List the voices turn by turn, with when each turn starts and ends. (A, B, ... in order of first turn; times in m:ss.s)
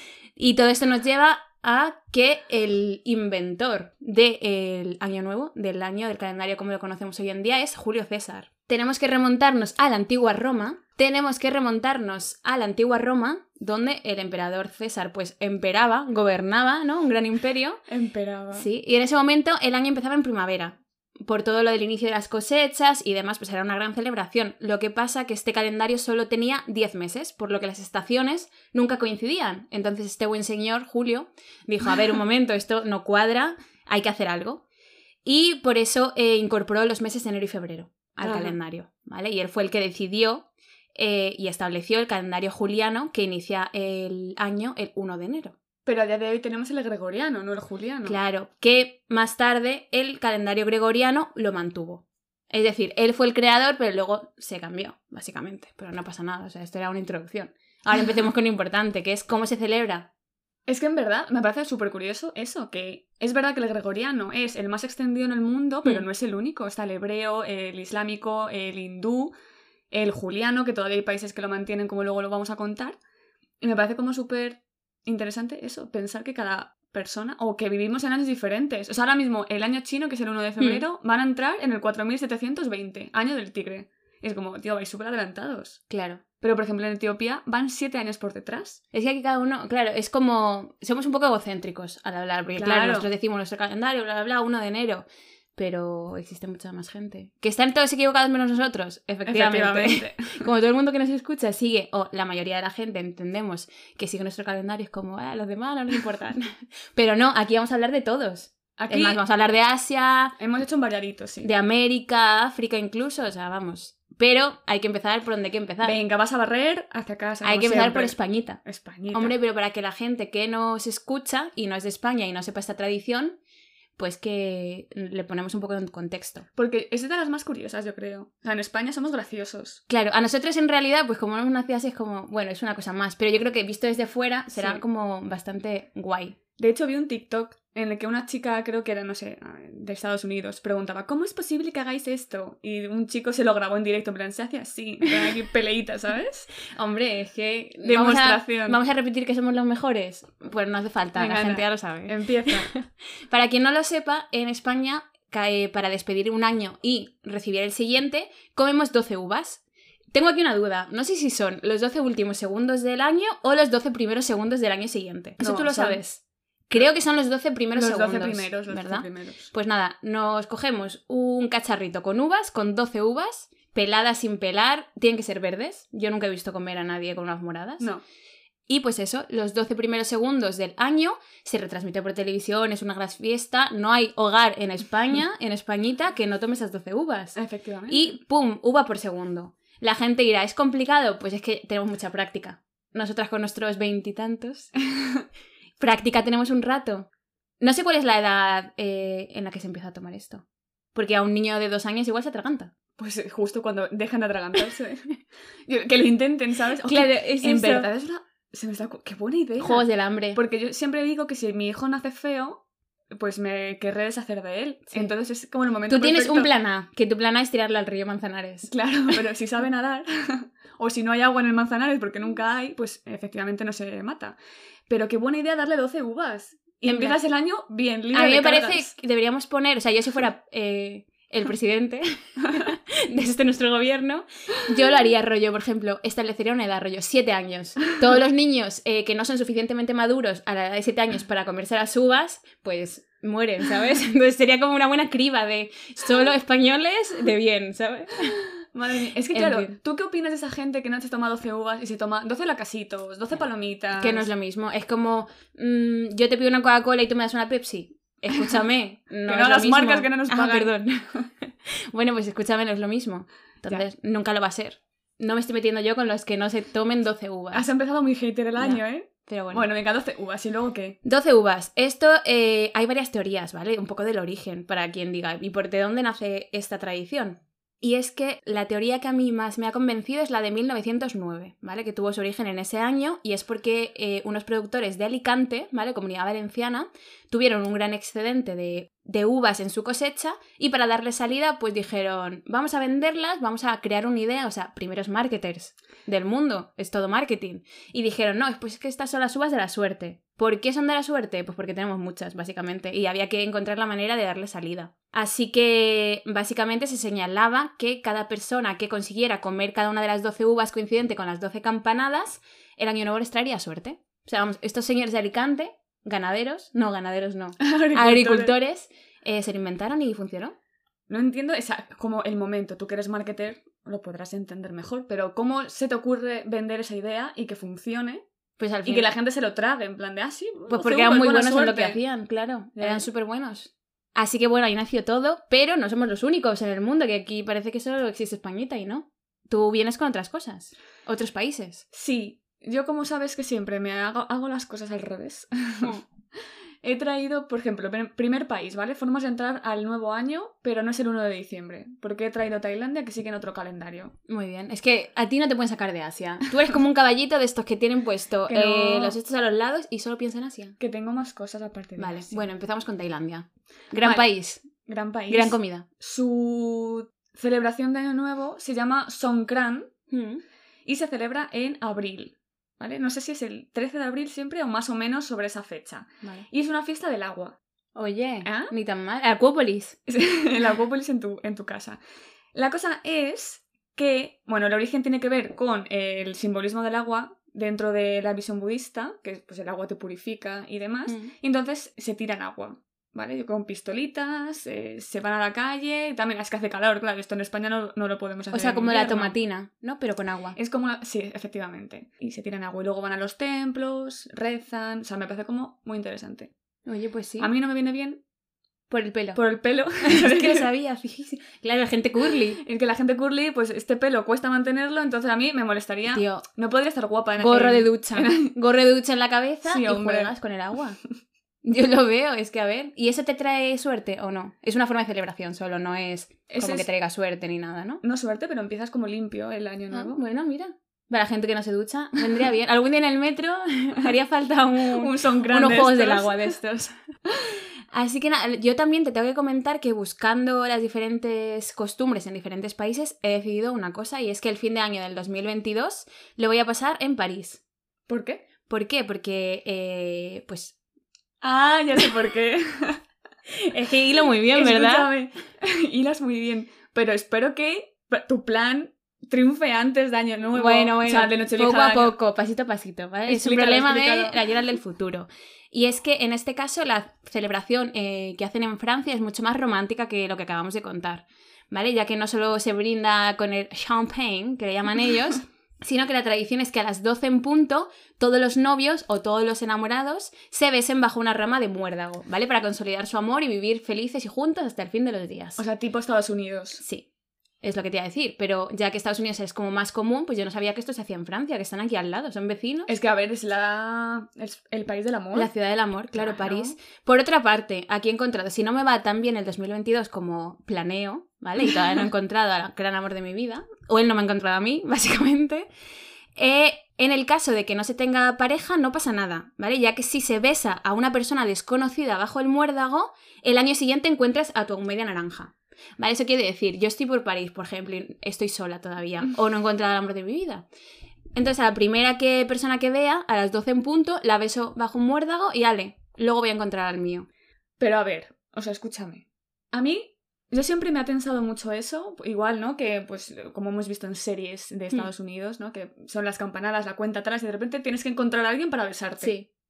0:00.4-0:17.8 A
0:17.9-0:18.7 B
0:18.5-0:34.6 A
0:35.2-0:45.5 A
0:38.2-0:38.6 B
0:45.8-0:48.2 B
0:48.0-1:00.1 A
1:00.7-1:09.3 B
1:09.9-1:13.0 B
1:13.6-1:25.8 B
1:20.6-1:20.8 A
1:25.9-1:26.2 A
1:26.4-1:28.8 B
1:28.9-1:50.4 A
1:32.6-1:33.1 B
1:39.2-1:40.3 B
1:48.8-1:49.2 B
1:50.4-1:51.5 B
1:51.4-1:56.0 A
1:55.8-1:59.3 B
1:57.4-1:58.6 A
1:59.1-2:03.4 A
2:04.0-2:06.5 A
2:06.6-2:09.8 B
2:09.9-2:16.4 A
2:14.5-2:14.8 B
2:16.6-2:26.5 B
2:26.7-2:39.6 A
2:27.8-2:28.8 B
2:31.2-2:32.7 B
2:40.1-2:57.9 A
2:45.4-2:46.0 B
2:47.7-2:49.5 B
2:58.7-3:14.7 A
3:07.4-3:08.2 B
3:14.9-3:15.2 B
3:15.8-3:17.1 A
3:17.6-3:22.7 A
3:23.0-3:25.1 B
3:25.7-3:36.5 B
3:26.8-3:27.9 A
3:29.6-3:30.4 A
3:35.9-3:38.7 A
3:38.7-3:44.4 B
3:44.9-3:48.9 B
3:46.8-3:47.2 A
3:48.1-4:08.4 A
4:08.7-4:14.3 B
4:09.3-4:09.7 A
4:14.0-4:27.7 A
4:19.3-4:21.2 B
4:27.5-4:31.0 B
4:28.6-4:29.7 A
4:31.0-5:20.5 A
5:17.6-5:18.5 B
5:21.1-5:28.2 B
5:28.6-5:29.1 A
5:28.8-5:32.0 B
5:30.7-5:41.8 A
5:32.8-5:33.1 B
5:41.9-5:46.0 B
5:46.8-5:54.1 B
5:54.3-6:00.8 A
5:58.5-5:59.2 B
6:00.8-6:02.4 B
6:02.0-6:04.6 A
6:04.0-6:04.3 B
6:04.8-6:09.9 B
6:05.3-6:05.8 A
6:10.1-6:10.4 A
6:10.8-6:17.6 B
6:18.0-6:20.0 A
6:18.4-6:18.7 B
6:20.1-6:22.0 B
6:22.5-6:39.3 B
6:31.1-6:31.3 A
6:38.5-6:40.6 A
6:40.6-6:46.5 B
6:46.8-6:47.5 A
6:47.4-6:48.2 B
6:48.9-6:49.4 A
6:49.3-6:50.7 B
6:50.0-6:52.6 A
6:52.6-6:58.5 B
6:56.1-6:56.4 A
6:57.4-7:01.0 A
6:59.6-7:00.3 B
7:01.6-7:08.0 A
7:06.5-7:06.9 B
7:08.0-7:10.2 B
7:09.9-7:16.9 A
7:14.9-7:16.6 B
7:17.9-7:27.6 A
7:28.1-7:28.4 B
7:28.7-7:30.7 A
7:31.4-7:33.0 B
7:33.5-7:35.1 A
7:34.5-7:42.1 B
7:40.5-8:05.6 A
7:43.3-7:44.5 B
8:05.6-8:06.8 B
8:06.8-8:07.1 A
8:07.6-8:12.9 A
8:12.9-8:15.5 B
8:15.3-8:25.6 A
8:16.1-8:16.8 B
8:26.4-8:40.6 A
8:41.3-8:47.3 A
8:47.8-8:59.3 B
8:59.2-8:59.5 A